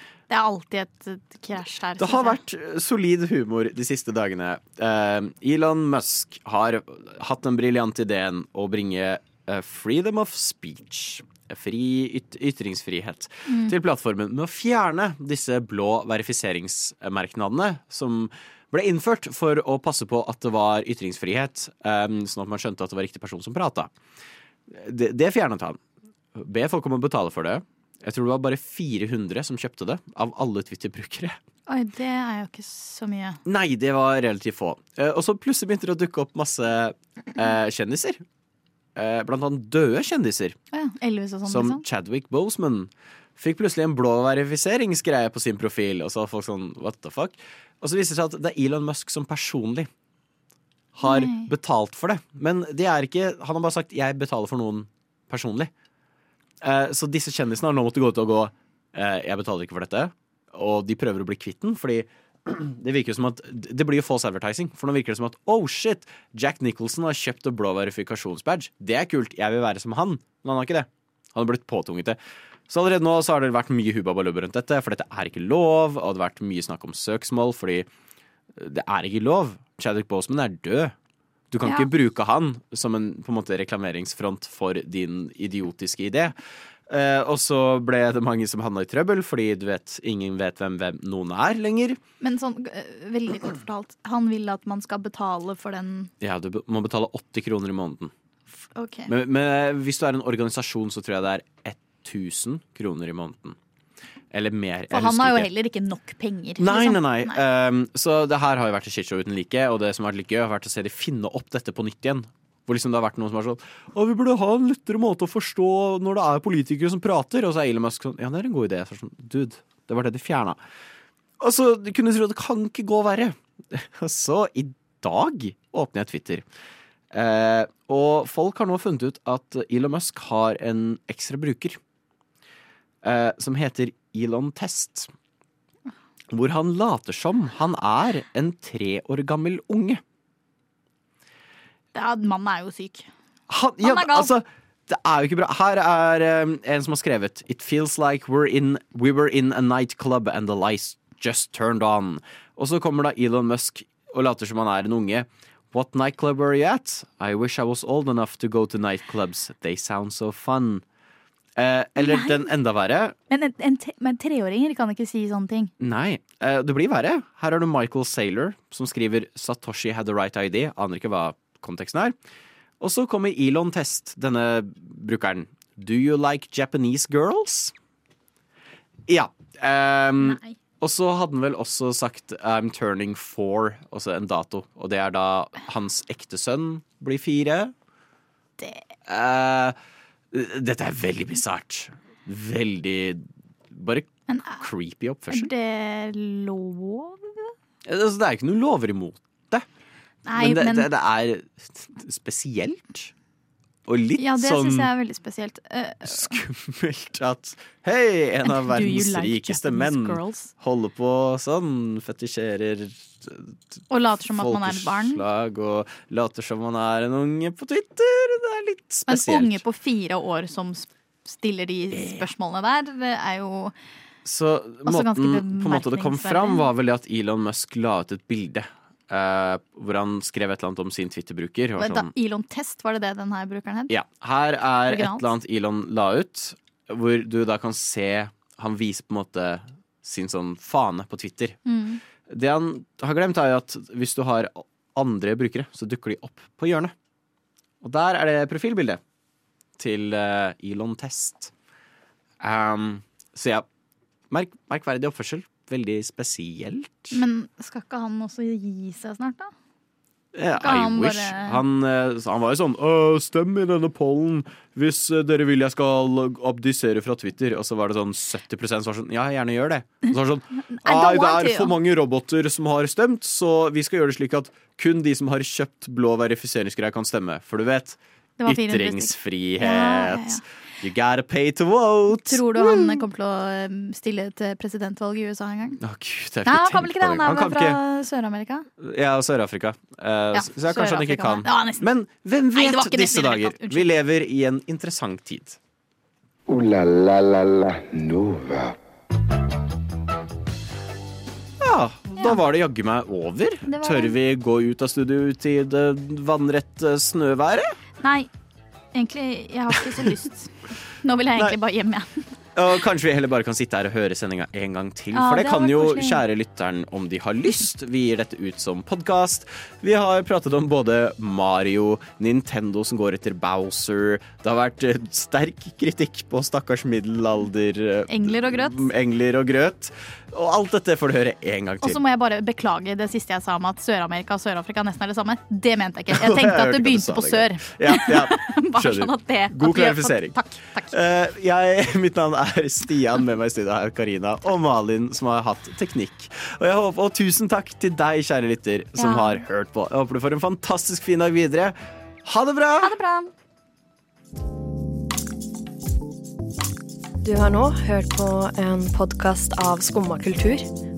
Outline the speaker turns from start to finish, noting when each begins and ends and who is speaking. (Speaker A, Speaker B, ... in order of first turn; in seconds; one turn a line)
Speaker A: 0.3-2.4
Speaker B: 2.0-23.9
Speaker A: 13.5-13.8
Speaker B: 24.7-25.8
Speaker B: 26.4-31.4
Speaker A: 31.7-33.4
Speaker B: 33.5-38.2
Speaker B: 39.0-40.6
Speaker A: 40.7-41.8
Speaker B: 41.5-49.9
Speaker B: 51.0-55.7
Speaker A: 51.0-51.5
Speaker B: 56.6-72.2
Speaker B: 72.7-77.9
Speaker B: 78.5-81.0
Speaker B: 81.5-86.4
Speaker A: 81.6-81.9
Speaker B: 86.9-92.0
Speaker A: 92.2-96.1
Speaker B: 96.2-98.1
Speaker A: 98.8-99.1
Speaker B: 99.1-103.6
Speaker B: 104.3-105.5
Speaker A: 104.9-107.4
Speaker B: 106.6-120.6
Speaker B: 121.4-126.5
Speaker B: 127.1-131.8
Speaker B: 133.0-135.1
Speaker B: 136.3-140.0
Speaker A: 141.9-143.1
Speaker B: 143.5-160.8
Speaker A: 143.8-144.3
Speaker B: 161.6-163.2
Speaker A: 162.0-162.5
Speaker A: 163.3-165.7
Speaker B: 165.8-172.2
Speaker B: 172.8-177.7
Speaker B: 179.1-187.7
Speaker A: 180.2-180.6
Speaker A: 188.6-188.8
Speaker B: 189.1-189.8
Speaker B: 190.3-195.5
Speaker A: 194.3-194.6
Speaker A: 195.3-197.5
Speaker B: 197.8-199.7
Speaker A: 200.3-200.9
Speaker B: 200.3-203.1
Speaker B: 203.9-204.9
Speaker A: 204.2-206.3
Speaker B: 206.1-219.6
Speaker A: 208.4-210.5
Speaker A: 213.9-215.2
Speaker A: 219.1-223.7
Speaker B: 221.9-222.3
Speaker B: 224.2-232.1
Speaker A: 224.8-226.7
Speaker A: 231.8-233.9
Speaker B: 233.9-241.6
Speaker A: 234.9-235.3
Speaker A: 241.7-242.0
Speaker B: 242.3-246.9
Speaker B: 247.8-249.0
Speaker B: 249.8-251.5
Speaker B: 252.4-253.7
Speaker B: 254.3-257.2
Speaker A: 257.1-259.5
Speaker B: 260.3-283.0
Speaker A: 260.6-261.6
Speaker A: 270.7-271.7
Speaker A: 278.4-280.4
Speaker A: 282.1-285.8
Speaker B: 285.8-287.8
Speaker A: 286.5-288.7
Speaker B: 288.8-295.6
Speaker A: 290.3-291.9
Speaker A: 292.6-293.9
Speaker C: 296.5-298.8
Speaker B: 301.6-307.8
Speaker A: 303.7-304.2
Speaker A: 308.0-308.3
Speaker A: 308.9-312.3
Speaker B: 309.7-310.1
Speaker B: 312.6-332.0
Speaker A: 315.1-316.2
Speaker A: 328.1-328.9
Speaker A: 331.8-340.9
Speaker B: 336.1-340.4
Speaker B: 340.9-353.0
Speaker A: 349.0-349.4
Speaker A: 352.8-353.3
Speaker D: 357.2-360.7